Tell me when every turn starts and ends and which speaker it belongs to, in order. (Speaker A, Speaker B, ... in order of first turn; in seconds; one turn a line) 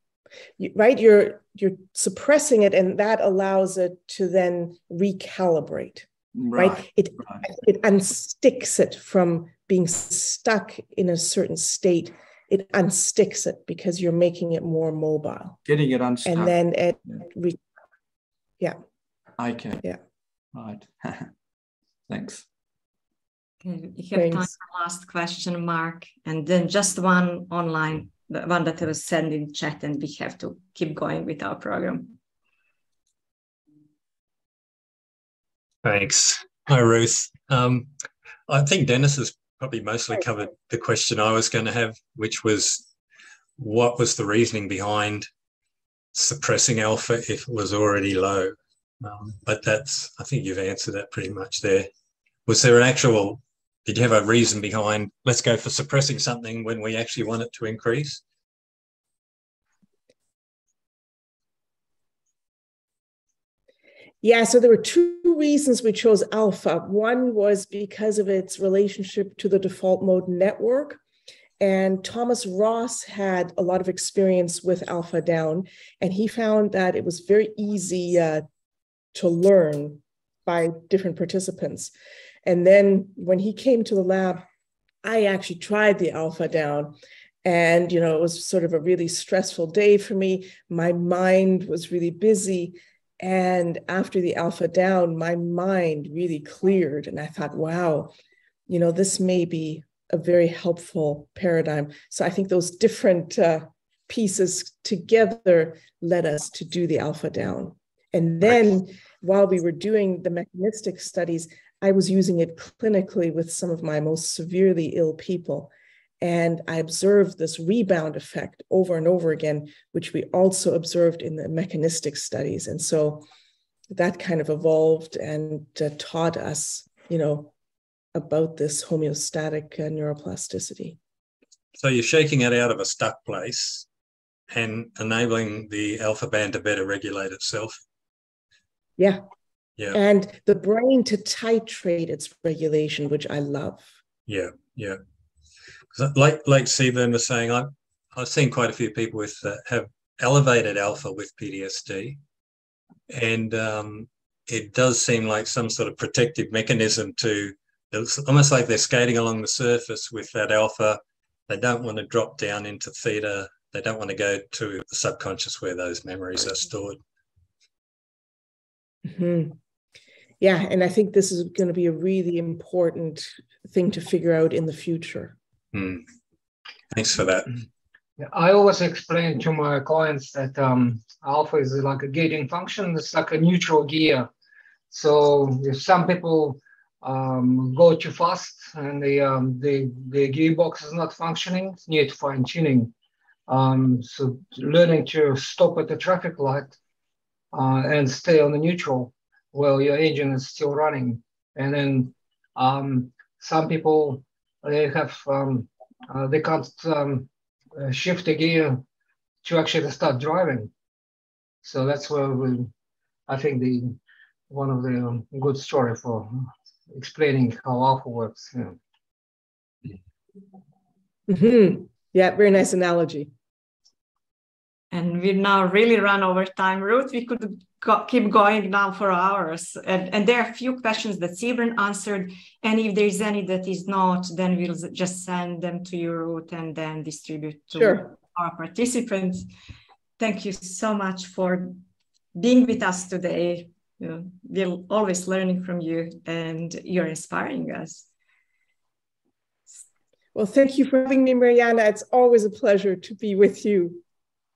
Speaker A: 0.6-15.6
Speaker B: 6.3-7.5
Speaker B: 15.7-16.6
Speaker A: 16.2-17.6
Speaker B: 19.4-19.8
Speaker B: 20.5-21.3
Speaker B: 22.1-22.4
Speaker C: 23.6-32.1
Speaker A: 24.1-24.5
Speaker D: 35.8-37.9
Speaker D: 38.5-42.8
Speaker D: 43.6-45.3
Speaker D: 46.1-51.9
Speaker D: 52.5-58.2
Speaker A: 64.2-71.0
Speaker A: 71.6-78.4
Speaker A: 79.1-81.9
Speaker A: 82.4-84.4
Speaker A: 85.0-86.9
Speaker A: 87.4-98.1
Speaker A: 98.7-123.2
Speaker A: 123.9-127.5
Speaker A: 128.1-131.0
Speaker D: 131.8-133.9
Speaker D: 134.5-137.8
Speaker A: 139.9-143.9
Speaker D: 144.3-145.0
Speaker D: 145.9-152.2
Speaker D: 153.1-167.0
Speaker A: 169.1-169.6
Speaker A: 170.4-175.4
Speaker D: 175.7-176.1
Speaker D: 176.9-177.5
Speaker E: 178.2-184.3
Speaker E: 184.9-192.9
Speaker E: 193.5-196.8
Speaker E: 197.5-208.8
Speaker E: 209.4-210.7
Speaker E: 211.6-212.7
Speaker E: 213.3-214.0
Speaker E: 214.5-218.8
Speaker A: 221.3-223.3
Speaker C: 224.9-239.5
Speaker A: 237.7-238.1
Speaker C: 240.2-241.8
Speaker C: 242.3-248.1
Speaker A: 250.3-254.0